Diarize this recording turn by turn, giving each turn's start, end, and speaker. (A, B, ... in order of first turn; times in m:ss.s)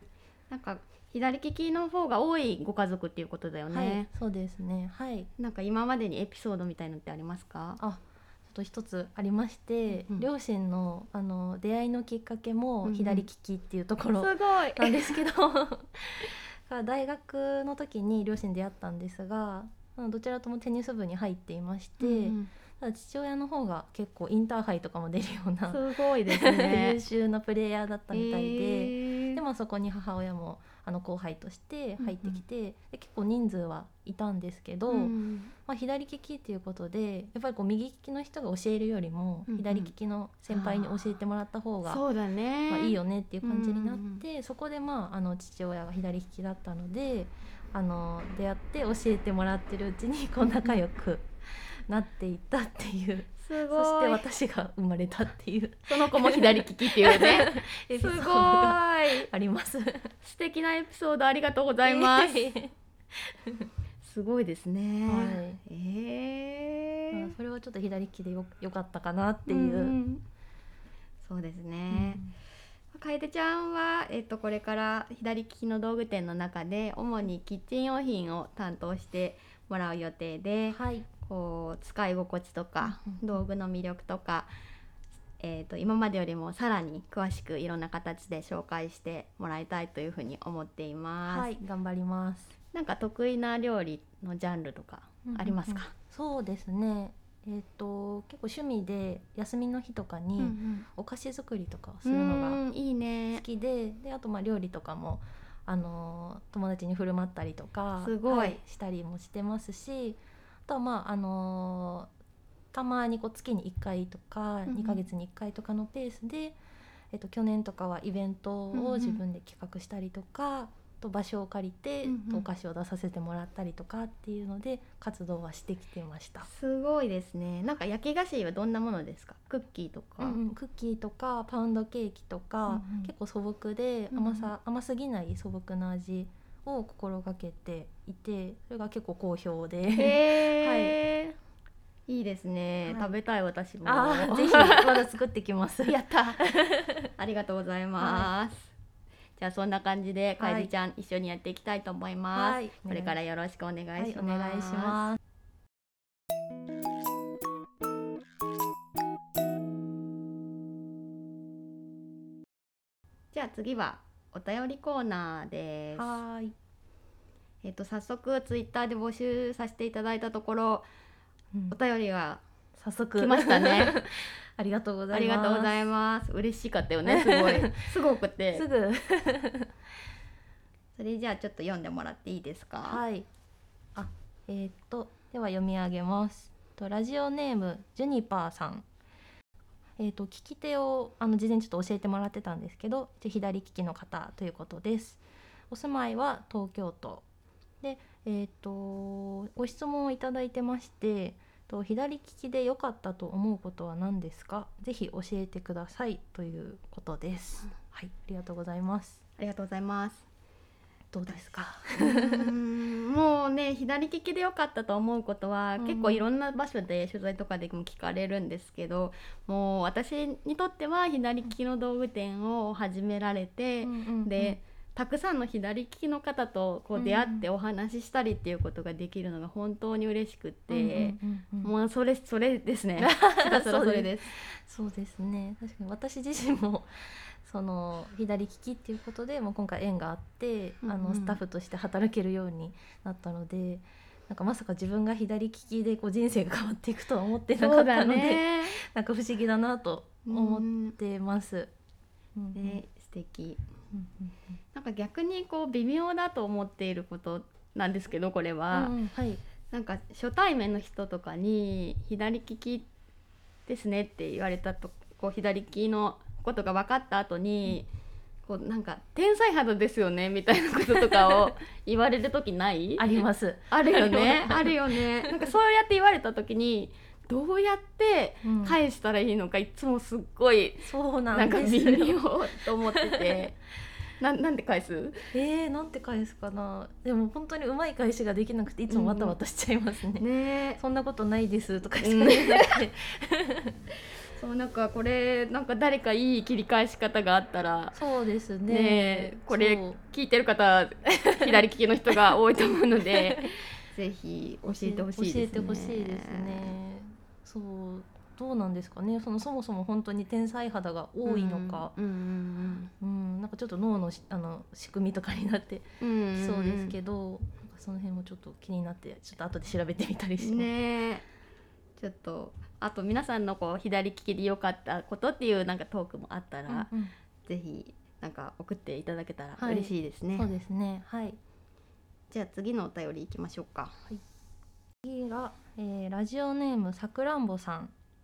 0:00.5-0:04.1 A
0:03.7-0:05.3 B
0:05.4-0:07.8 A
0:07.8-0:35.1 B
0:09.9-0:10.3 A
0:12.8-0:13.3 A
0:14.2-0:15.2 A
0:22.0-0:22.5 A
0:25.7-0:27.0 A
0:28.1-0:29.4 A
0:32.0-0:32.4 A
0:34.9-0:35.5 A
0:35.7-0:42.0 B
0:39.5-0:39.9 A
0:40.5-0:41.0 A
0:41.8-0:44.2 A
0:42.7-1:00.1 B
0:50.4-0:50.8 A
0:53.4-0:54.3 A
0:55.9-0:59.3 A
1:00.2-1:02.5 A
1:01.8-1:03.7 B
1:04.0-1:07.3 A
1:05.1-1:05.6 B
1:07.1-1:10.0 B
1:09.5-1:10.2 A
1:11.2-1:12.2 A
1:11.9-1:12.3 B
1:12.9-1:24.5 A
1:20.7-1:21.1 B
1:22.8-1:23.4 B
1:25.4-1:31.6 A
1:31.3-1:32.5 B
1:32.7-1:35.9 A
1:35.2-1:42.6 B
1:40.4-1:40.9 A
1:42.0-1:43.4 A
1:43.3-1:52.1 B
1:48.0-1:48.6 A
1:52.7-1:56.6 B
1:54.7-1:55.0 A
1:57.1-2:06.5 B
1:58.7-1:59.2 A
2:02.0-2:02.5 A
2:06.4-2:10.4 A
2:10.2-2:21.0 B
2:12.7-2:13.1 A
2:14.1-2:14.5 A
2:20.0-2:21.4 A
2:22.1-2:25.1 A
2:22.9-2:23.1 B
2:23.8-2:27.1 B
2:27.2-2:28.7 A
2:28.0-2:28.3 B
2:29.4-2:35.0 A
2:30.4-2:30.7 B
2:32.3-2:33.2 B
2:34.0-2:35.2 B
2:43.3-2:46.2 A
2:46.0-2:46.6 B
2:47.6-2:50.9 A
2:51.7-2:52.4 A
2:52.8-2:55.8 B
2:53.2-2:54.0 A
2:55.1-2:58.7 A
2:57.0-2:57.7 B
2:58.5-2:59.7 B
3:01.0-3:03.0 A
3:02.8-3:03.3 B
3:04.0-3:08.9 B
3:10.0-3:17.2 B
3:17.8-3:29.2 B
3:29.4-3:30.3 A
3:31.1-3:32.5 B
3:31.3-3:54.4 A
3:35.8-3:36.3 B
3:43.8-3:44.6 B
3:47.0-3:47.4 B
3:50.7-3:51.7 B
3:53.0-4:11.7 B
4:00.8-4:01.4 A
4:07.6-4:08.8 A
4:10.3-4:11.0 A
4:12.4-4:12.8 B
4:12.6-4:13.6 A
4:13.9-4:14.6 B
4:14.7-4:18.9 A
4:18.7-4:19.4 B
4:19.7-4:22.9 A
4:23.7-4:27.9 A
4:28.4-4:43.6 A
4:33.0-4:35.5 B
4:38.4-4:38.8 B
4:40.9-4:42.2 B
4:43.1-4:43.4 B
4:44.2-4:45.3 A
4:45.3-4:50.3 B
4:48.9-4:49.4 A
4:50.2-4:50.8 A
4:50.8-4:53.7 B
4:52.0-4:52.8 A
4:54.4-4:58.0 A
4:57.9-5:00.0 B
4:58.7-5:06.8 A
5:01.3-5:01.6 B
5:03.3-5:03.6 B
5:04.7-5:11.9 B
5:11.2-5:12.9 A
5:13.0-5:20.7 B
5:16.0-5:17.0 A
5:20.4-5:21.2 A
5:22.0-5:26.9 A
5:26.7-5:27.1 B
5:27.4-5:30.5 A
5:29.6-5:31.4 B
5:32.3-5:34.0 A
5:35.0-5:37.9 B